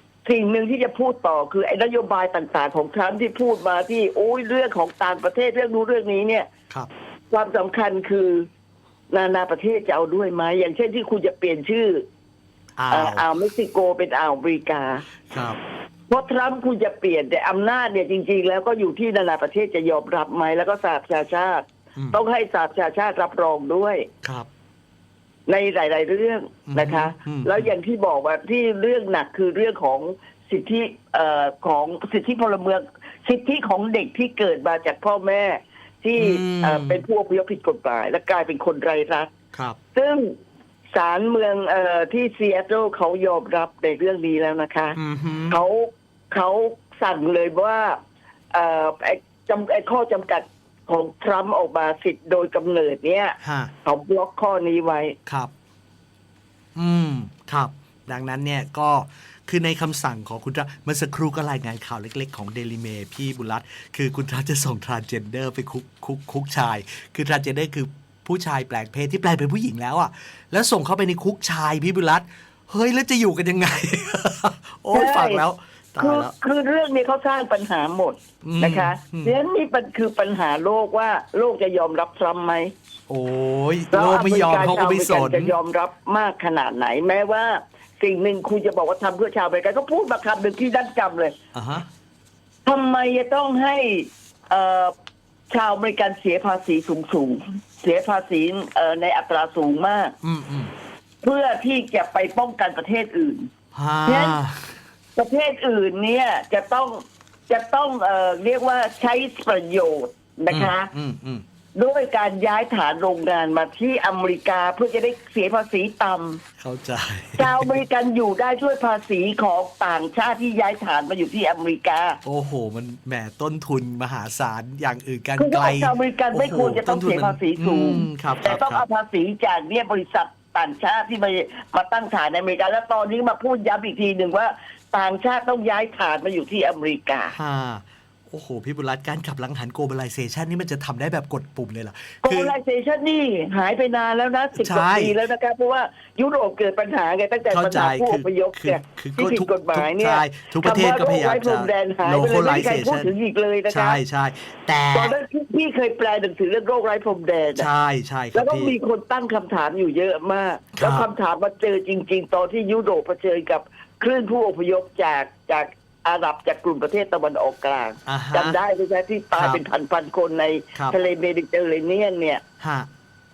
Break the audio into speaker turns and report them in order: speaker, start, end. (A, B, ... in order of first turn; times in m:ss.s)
0:00.2-0:06.5 A
0:07.3-0:08.4 A
0:09.1-0:12.0 A
0:12.8-0:13.3 B
0:12.9-0:15.0 A
0:15.3-0:15.6 B
0:16.1-0:24.1 A
0:24.2-0:24.5 B
0:25.5-0:39.3 A
0:26.7-0:27.7 B
0:36.2-0:37.0 B
0:39.9-0:40.3 A
0:40.9-0:45.0 A
0:45.0-0:45.6 B
0:45.5-0:48.0 A
0:48.5-0:55.2 A
0:53.4-0:53.7 B
0:56.8-1:16.3 B
1:14.9-1:15.4 A
1:16.0-1:22.7 A
1:18.4-1:19.4 B
1:23.1-1:25.5 B
1:23.9-1:31.3 A
1:31.5-1:31.9 B
1:32.6-1:34.9 A
1:35.5-1:40.1 A
1:40.2-1:40.7 B
1:41.2-1:43.5 A
1:43.7-1:44.8 B
1:44.0-1:44.4 A
1:45.1-1:50.9 A
1:50.5-1:51.4 B
1:51.8-1:56.4 A
1:56.6-1:57.7 B
1:57.4-2:02.2 A
2:02.2-2:08.8 B
2:05.4-2:17.3 A
2:17.3-2:22.5 B
2:22.2-2:34.0 A
2:24.5-2:25.2 B
2:27.5-2:33.1 B
2:33.7-2:35.2 B
2:34.9-2:37.7 A
2:37.5-2:38.8 B
2:38.3-2:52.4 A
2:40.8-2:41.1 B
2:48.0-2:48.6 B
2:49.3-2:49.6 B
2:52.6-2:52.9 B